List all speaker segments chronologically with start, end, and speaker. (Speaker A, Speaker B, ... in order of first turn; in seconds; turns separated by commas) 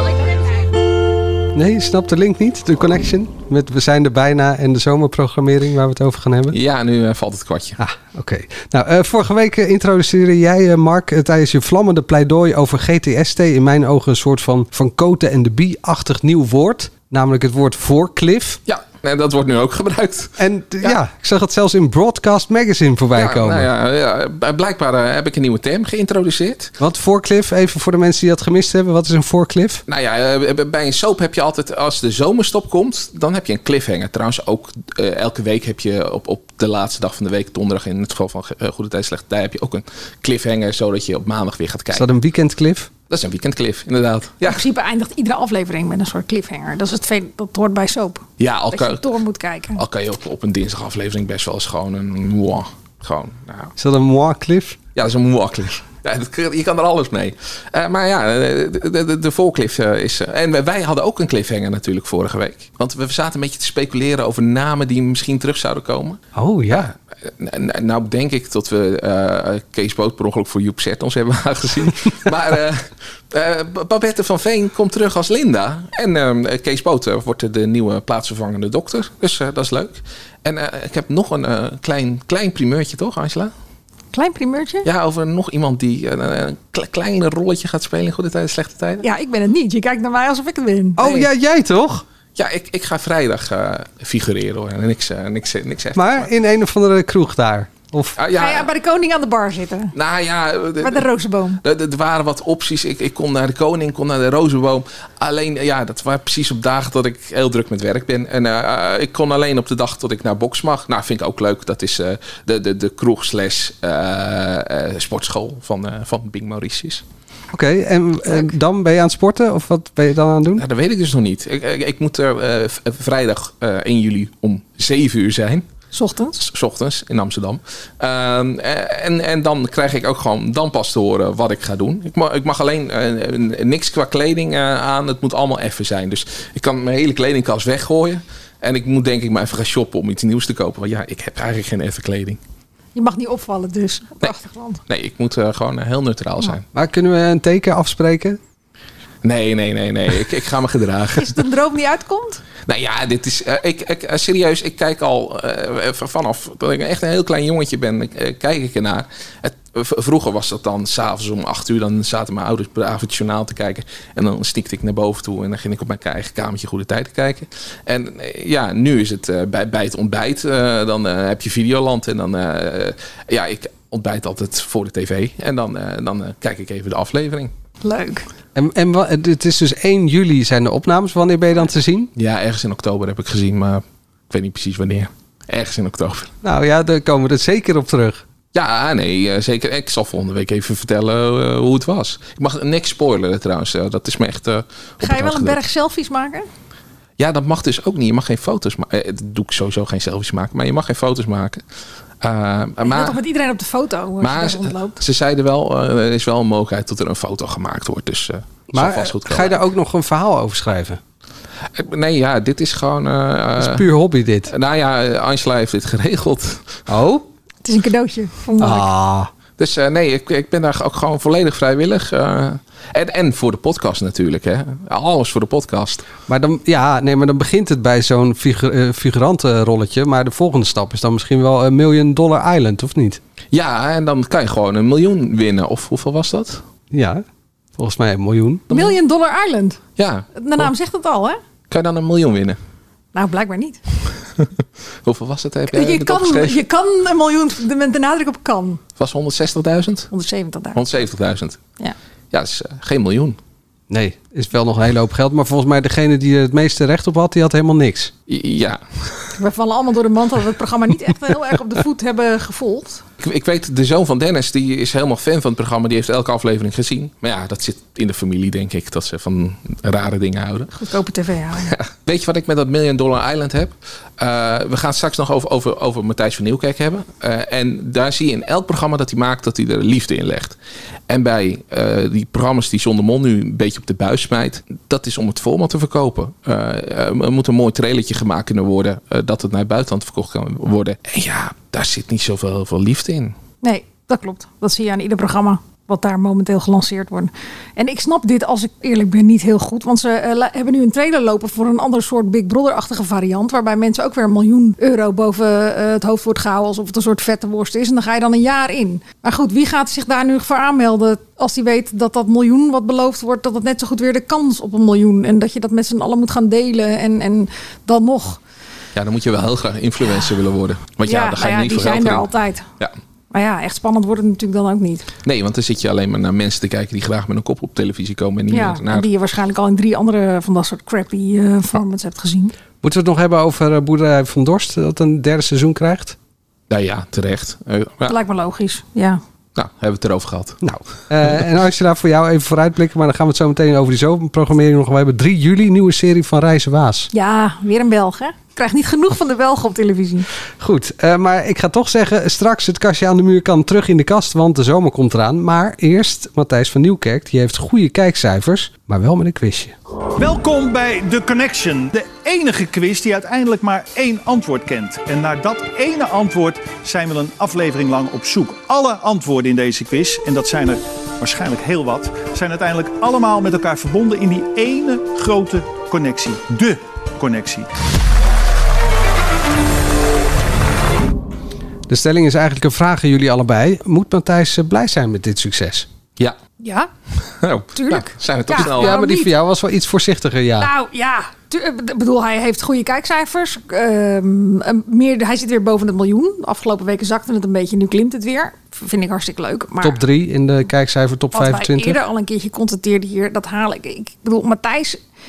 Speaker A: 1.5-6.6, Speaker B: 6.5-7.8, Speaker A: 7.8-18.6, Speaker B: 18.7-20.9, Speaker A: 20.4-23.7, Speaker B: 23.1-26.7, Speaker A: 26.8-29.8, Speaker B: 29.9-42.1, Speaker A: 41.9-42.9, Speaker B: 43.1-44.6, Speaker C: 44.4-49.8, Speaker B: 48.4-49.0, Speaker B: 49.8-53.7, Speaker A: 53.8-54.8, Speaker B: 55.0-83.5, Speaker A: 66.3-66.9, Speaker C: 84.1-84.9, Speaker B: 84.8-89.0, Speaker C: 89.0-91.0, Speaker A: 91.0-92.0, Speaker B: 91.0-91.3, Speaker B: 92.3-96.3, Speaker A: 95.9-98.2, Speaker B: 98.2-98.7, Speaker C: 98.3-99.9, Speaker B: 99.9-101.0, Speaker C: 100.8-101.6, Speaker B: 101.6-117.0, Speaker A: 117.5-120.6, Speaker B: 120.6-125.6, Speaker C: 125.9-126.4, Speaker B: 126.4-142.4, Speaker C: 142.9-144.8, Speaker B: 144.9-146.6, Speaker A: 146.7-148.4, Speaker B: 149.2-151.4, Speaker C: 151.2-152.4, Speaker B: 152.7-177.5, Speaker C: 177.8-178.2, Speaker A: 178.5-182.1, Speaker B: 182.2-186.3, Speaker A: 186.4-188.2, Speaker B: 188.5-195.6, Speaker C: 195.0-196.5, Speaker B: 197.2-201.6, Speaker B: 202.2-203.2, Speaker C: 202.8-205.0, Speaker B: 204.2-209.6, Speaker A: 208.7-211.0, Speaker B: 211.7-213.9, Speaker A: 213.6-214.5, Speaker B: 214.5-216.8, Speaker A: 216.9-217.2, Speaker C: 217.6-218.9, Speaker A: 218.6-219.3, Speaker B: 219.6-226.1, Speaker A: 226.3-233.2, Speaker B: 233.5-236.6, Speaker A: 236.9-237.2, Speaker A: 237.8-238.7, Speaker C: 238.7-239.8, Speaker B: 240.0-240.7, Speaker C: 240.3-241.4, Speaker B: 241.7-242.6, Speaker C: 243.1-243.8, Speaker B: 245.0-246.6, Speaker C: 245.7-248.8, Speaker B: 249.0-250.1, Speaker C: 250.1-250.8, Speaker B: 250.7-251.6, Speaker B: 252.3-253.4, Speaker A: 253.9-258.1, Speaker B: 258.3-259.3, Speaker C: 259.4-263.0, Speaker B: 263.2-270.7, Speaker C: 270.7-271.8, Speaker B: 271.6-280.6, Speaker B: 281.1-293.4, Speaker C: 293.6-318.4, Speaker B: 318.9-322.3, Speaker C: 321.0-322.6, Speaker C: 323.3-325.1, Speaker B: 325.2-329.1, Speaker C: 328.5-332.5, Speaker A: 332.8-336.1, Speaker B: 336.7-338.1, Speaker C: 338.1-339.2, Speaker B: 339.5-340.6, Speaker A: 340.6-347.1, Speaker C: 347.1-350.3, Speaker A: 350.6-359.7, Speaker D: 360.2-377.7, Speaker A: 381.9-385.9, Speaker C: 386.6-386.9, Speaker B: 387.4-389.0, Speaker C: 387.7-389.3, Speaker A: 388.5-390.7, Speaker C: 390.6-400.0, Speaker A: 399.8-402.0, Speaker C: 401.3-405.0